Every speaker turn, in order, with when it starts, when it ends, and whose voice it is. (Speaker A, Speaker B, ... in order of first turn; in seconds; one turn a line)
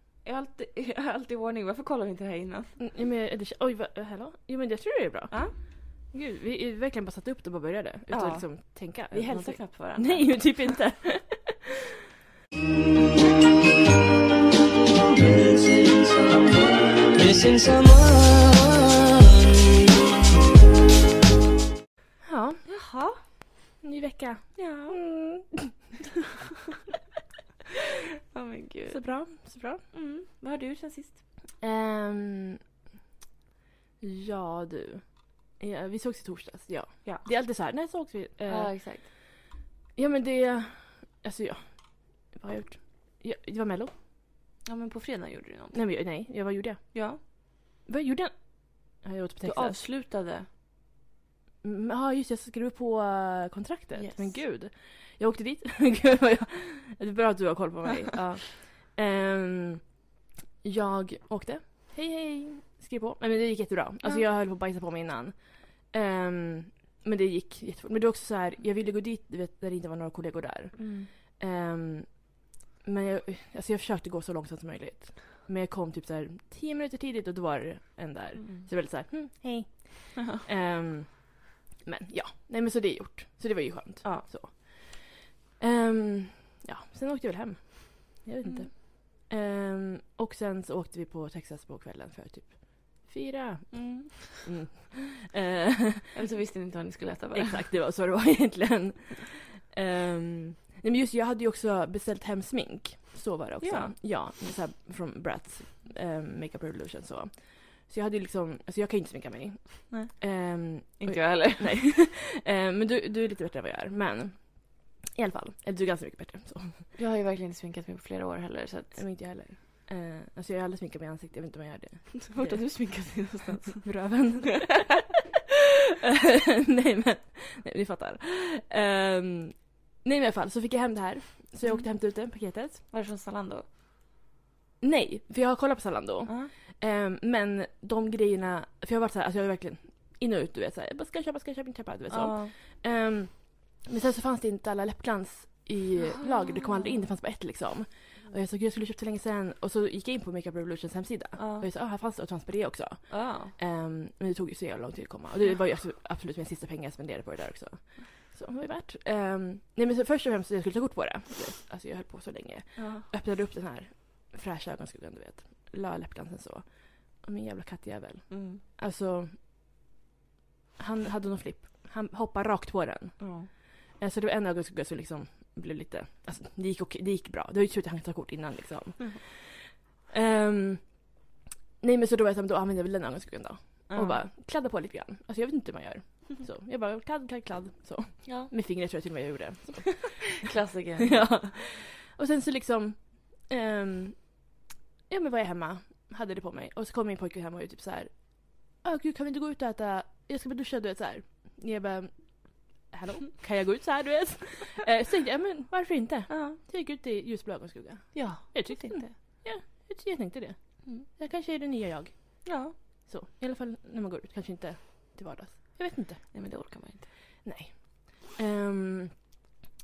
Speaker A: 0.2-2.8
Speaker B: 2.8-5.4
Speaker B: 6.0-11.8
Speaker A: 8.1-10.7
Speaker C: 15.0-19.8
Speaker B: 22.2-22.6
Speaker A: 22.6-23.2
Speaker B: 23.8-25.9
Speaker A: 24.6-25.0
Speaker A: 28.3-29.0
Speaker B: 28.9-29.8
Speaker A: 29.9-31.2
Speaker B: 31.6-32.6
Speaker B: 34.0-39.1
Speaker A: 38.4-39.1
Speaker B: 40.0-43.9
Speaker A: 44.6-45.8
Speaker B: 45.7-47.2
Speaker A: 46.9-47.2
Speaker B: 47.9-49.8
Speaker A: 49.4-50.5
Speaker B: 51.6-59.9
Speaker A: 54.0-54.4
Speaker B: 60.6-96.2
Speaker A: 70.8-71.1
Speaker A: 78.4-78.7
Speaker A: 80.2-80.4
Speaker A: 88.4-88.7
Speaker A: 93.7-94.3
Speaker A: 96.1-97.6
Speaker B: 97.3-116.9
Speaker A: 103.6-103.9
Speaker A: 109.9-110.2
Speaker A: 110.8-111.8
Speaker A: 117.0-119.0
Speaker B: 119.0-123.3
Speaker A: 122.2-123.9
Speaker B: 123.8-125.1
Speaker B: 125.9-132.8
Speaker A: 132.9-133.7
Speaker B: 134.8-169.4
Speaker A: 136.3-136.5
Speaker A: 142.1-142.5
Speaker A: 146.0-147.0
Speaker A: 151.4-151.7
Speaker A: 153.1-153.5
Speaker A: 162.8-163.1
Speaker A: 168.3-168.6
Speaker B: 170.8-173.3
Speaker A: 173.2-173.5
Speaker B: 174.0-181.1
Speaker B: 181.8-190.3
Speaker A: 183.9-184.2
Speaker A: 188.2-188.5
Speaker A: 190.3-191.5
Speaker B: 191.0-194.4
Speaker B: 195.1-212.6
Speaker A: 206.3-206.6
Speaker A: 208.1-209.2
Speaker A: 212.4-212.8
Speaker B: 213.1-216.3
Speaker A: 216.3-217.1
Speaker B: 217.4-219.2